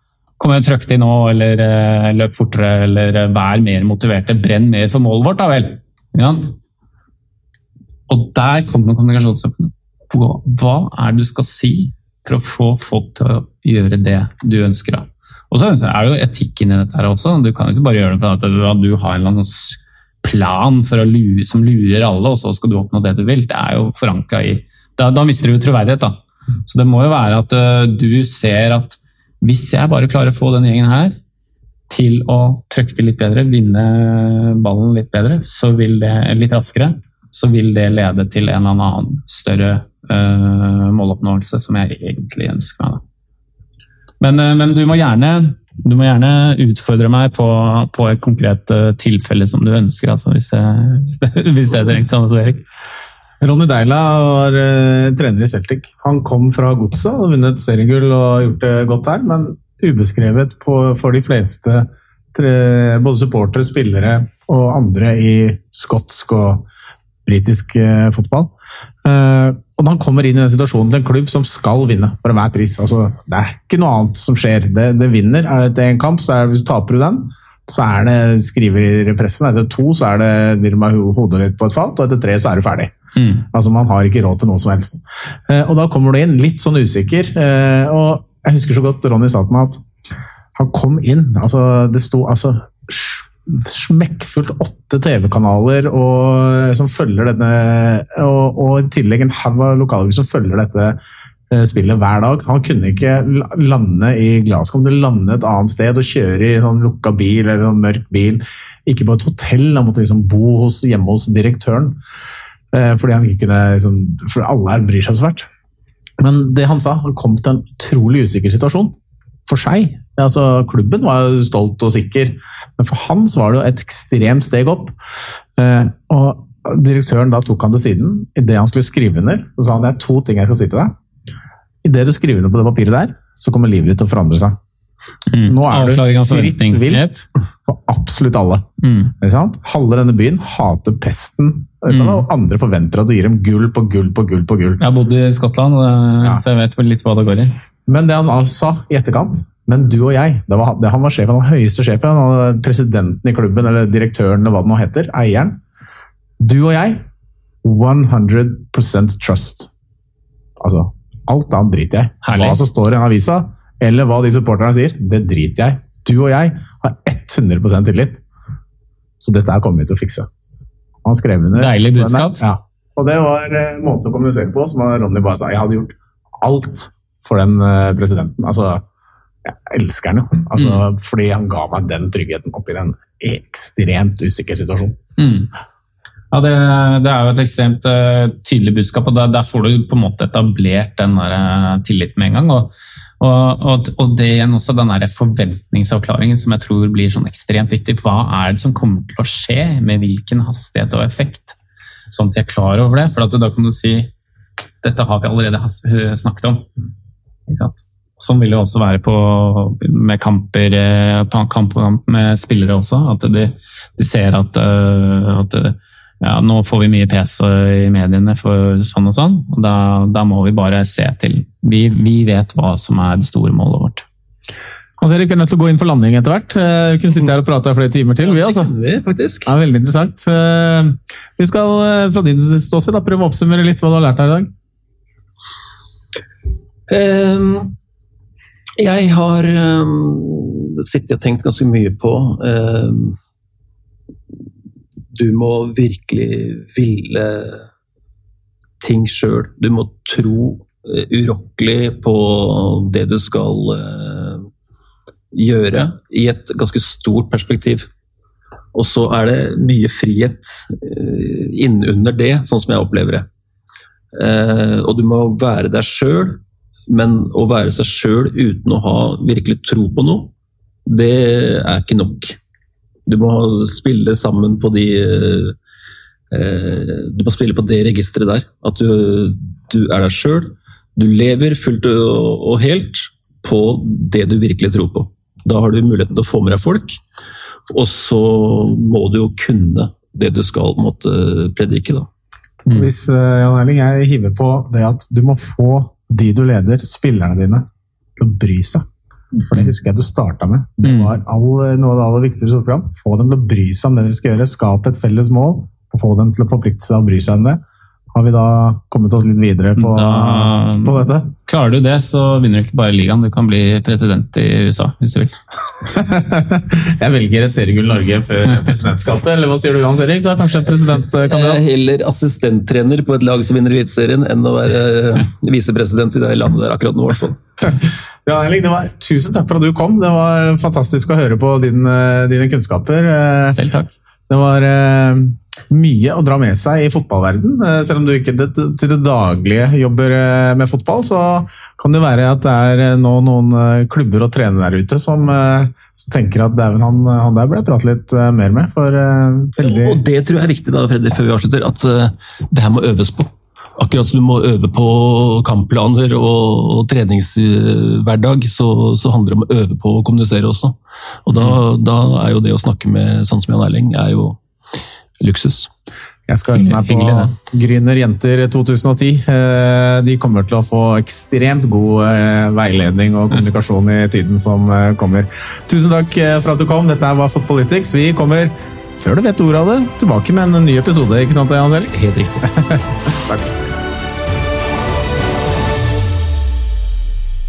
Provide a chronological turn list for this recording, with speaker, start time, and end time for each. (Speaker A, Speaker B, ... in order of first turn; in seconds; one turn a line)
Speaker A: 0.4-6.5
Speaker A: 8.1-31.2
Speaker A: 31.9-43.0
Speaker A: 44.2-52.6
Speaker B: 53.4-66.7
Speaker B: 67.3-68.5
Speaker B: 69.0-82.9
Speaker A: 83.2-83.5
Speaker B: 83.5-89.8
Speaker B: 90.6-101.0
Speaker B: 101.5-112.0
Speaker B: 112.7-115.5
Speaker B: 116.2-119.0
Speaker B: 119.5-125.0
Speaker B: 125.6-130.9
Speaker B: 131.8-134.6
Speaker A: 135.3-137.2
Speaker B: 135.5-138.7
Speaker A: 138.8-139.1
Speaker B: 139.2-144.8
Speaker A: 141.9-142.2
Speaker A: 144.8-147.6
Speaker B: 147.9-155.6
Speaker B: 156.4-157.0
Speaker B: 157.6-159.7
Speaker B: 160.6-168.2
Speaker A: 162.2-162.6
Speaker B: 169.2-170.3
Speaker B: 171.1-178.8
Speaker A: 171.6-172.4
Speaker B: 179.4-185.0
Speaker A: 180.6-180.8
Speaker A: 185.2-185.5
Speaker A: 186.3-201.6
Speaker A: 202.1-204.1
Speaker A: 204.8-206.7
Speaker A: 207.5-224.1
Speaker B: 225.0-228.7
Speaker C: 228.2-229.6
Speaker B: 229.5-234.5
Speaker C: 236.9-237.7
Speaker C: 238.8-243.2
Speaker C: 245.1-247.7
Speaker C: 248.8-254.5
Speaker C: 255.3-257.9
Speaker C: 258.7-263.3
Speaker C: 264.1-270.3
Speaker C: 270.9-272.4
Speaker C: 273.1-275.6
Speaker C: 276.3-287.0
Speaker C: 287.7-292.1
Speaker B: 292.7-298.9
Speaker B: 299.5-307.6
Speaker A: 300.8-301.2
Speaker B: 308.1-311.3
Speaker A: 309.8-315.4
Speaker B: 315.9-321.6
Speaker C: 321.3-327.4
Speaker B: 327.7-333.6
Speaker A: 333.5-333.9
Speaker B: 334.3-350.0
Speaker C: 349.6-364.4
Speaker C: 365.2-365.7
Speaker B: 366.3-383.6
Speaker A: 366.6-367.3
Speaker C: 381.9-382.5